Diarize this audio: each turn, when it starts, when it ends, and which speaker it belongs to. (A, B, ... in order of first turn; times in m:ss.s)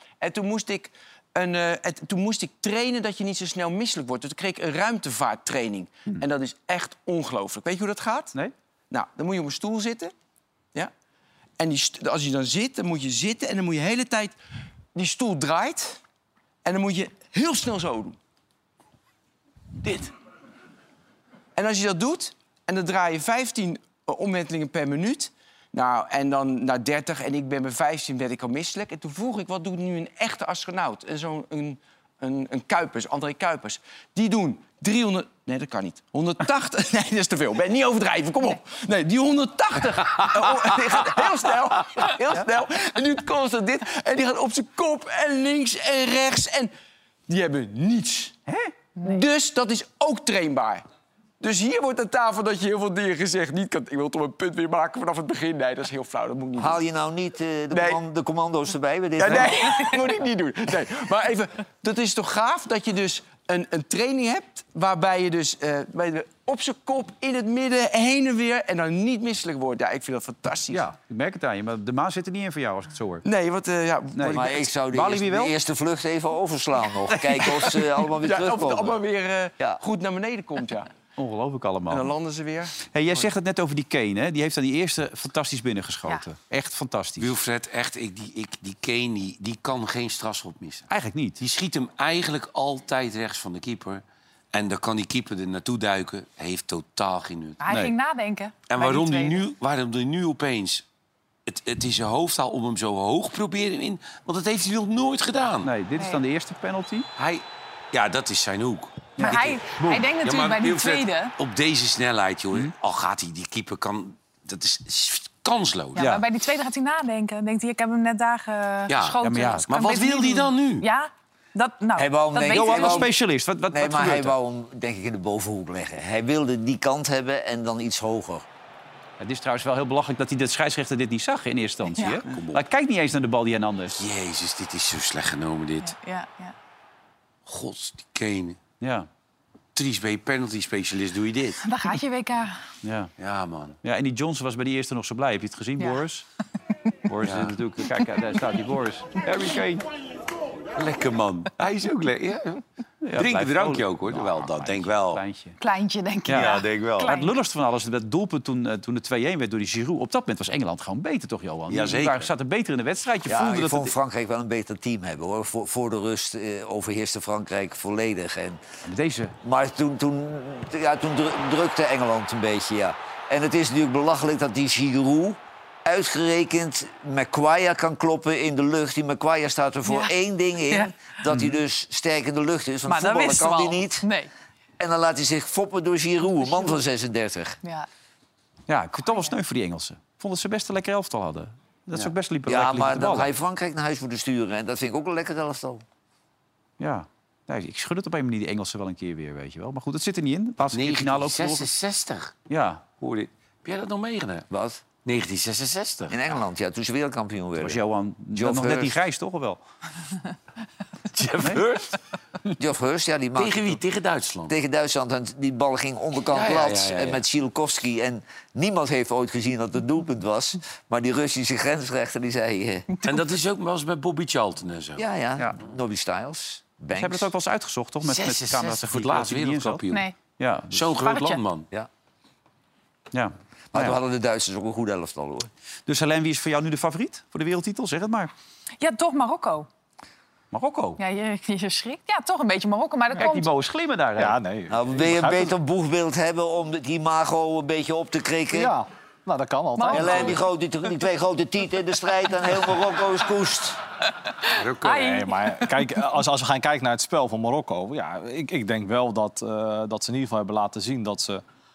0:00.2-0:08.3 A
0:08.9-0:10.1 A
0:11.6-0:14.4 A
0:14.9-0:16.0 A
0:16.6-0:18.2 A
0:19.8-0:20.1 A
0:21.6-0:46.7 A
0:47.3-0:48.3 A
0:48.5-0:48.7 B
0:49.0-0:50.8 A
0:51.4-0:56.8 A
0:56.6-0:59.8 C
0:57.7-0:58.0 A
0:59.2-1:10.8 A
1:10.7-1:13.2 B
1:13.2-1:14.6 A
1:14.1-1:15.5 B
1:14.3-1:19.0 C
1:18.1-1:20.9 A
1:21.2-1:22.1 B
1:21.9-1:23.3 A
1:22.9-1:27.3 B
1:27.2-1:30.9 D
1:30.9-1:31.4 B
1:31.4-1:37.6 D
1:37.6-1:39.4 E
1:38.7-1:40.8 D
1:41.4-1:45.7 D
1:45.6-1:47.1 B
1:47.2-1:49.6 D
1:49.2-1:50.0 B
1:49.2-1:51.3 E
1:50.2-1:56.0 D
1:56.0-2:03.1 E
1:56.0-1:56.2 B
1:58.9-2:00.9 D
1:59.2-1:59.7 B
2:02.0-2:03.1 C
2:02.4-2:04.3 B
2:03.7-2:08.4 C
2:09.2-2:14.0 B
2:11.9-2:12.2 E
2:12.3-2:12.6 D
2:13.9-2:15.9 D
2:15.8-2:16.5 E
2:17.4-2:18.6 D
2:18.8-2:19.1 B
2:19.7-2:21.6 D
2:21.6-2:22.6 E
2:22.8-2:23.1 B
2:23.2-2:23.8 D
2:23.8-2:26.2 B
2:27.1-2:29.8 B
2:27.2-2:27.5 D
2:30.8-2:32.6 D
2:33.0-2:35.6 B
2:33.1-2:35.2 D
2:35.6-2:37.3 E
2:36.2-2:43.9 B
2:36.3-2:37.1 D
2:41.7-2:42.3 D
2:43.2-2:48.6 C
2:48.8-2:49.3 B
2:49.4-3:04.0 C
2:59.9-3:00.1 E
3:00.7-3:00.9 E
3:02.9-3:04.3 E
3:04.8-3:07.6 C
3:08.7-3:13.3 B
3:12.4-3:15.8 C
3:16.8-3:21.7 B
3:20.7-3:22.4 D
3:22.5-3:22.8 B
3:23.0-3:24.5 D
3:24.5-3:24.8 C
3:25.0-3:26.3 D
3:26.1-3:27.8 C
3:27.6-3:29.6 B
3:28.3-3:29.0 C
3:31.1-3:32.0 D
3:32.6-3:33.8 C
3:33.4-3:34.5 D
3:34.5-3:42.8 C
3:36.3-3:37.2 D
3:43.0-3:45.0 D
3:45.0-3:47.3 C
3:46.9-3:49.8 B
3:48.0-3:50.1 D
3:49.9-3:50.1 E
3:50.4-3:50.9 B
3:50.7-3:51.7 D
3:51.0-3:51.4 E
3:53.1-3:54.0 B
3:53.7-3:55.5 C
3:55.9-3:58.3 B
3:58.8-3:59.7 E
4:00.5-4:01.0 B
4:01.0-4:03.5 E
4:03.1-4:04.4 B
4:04.2-4:05.5 F
4:04.7-4:08.7 C
4:08.5-4:10.4 F
4:09.8-4:10.4 E
4:09.9-4:13.8 C
4:14.5-4:16.0 E
4:14.5-4:15.2 D
4:15.0-4:21.4 F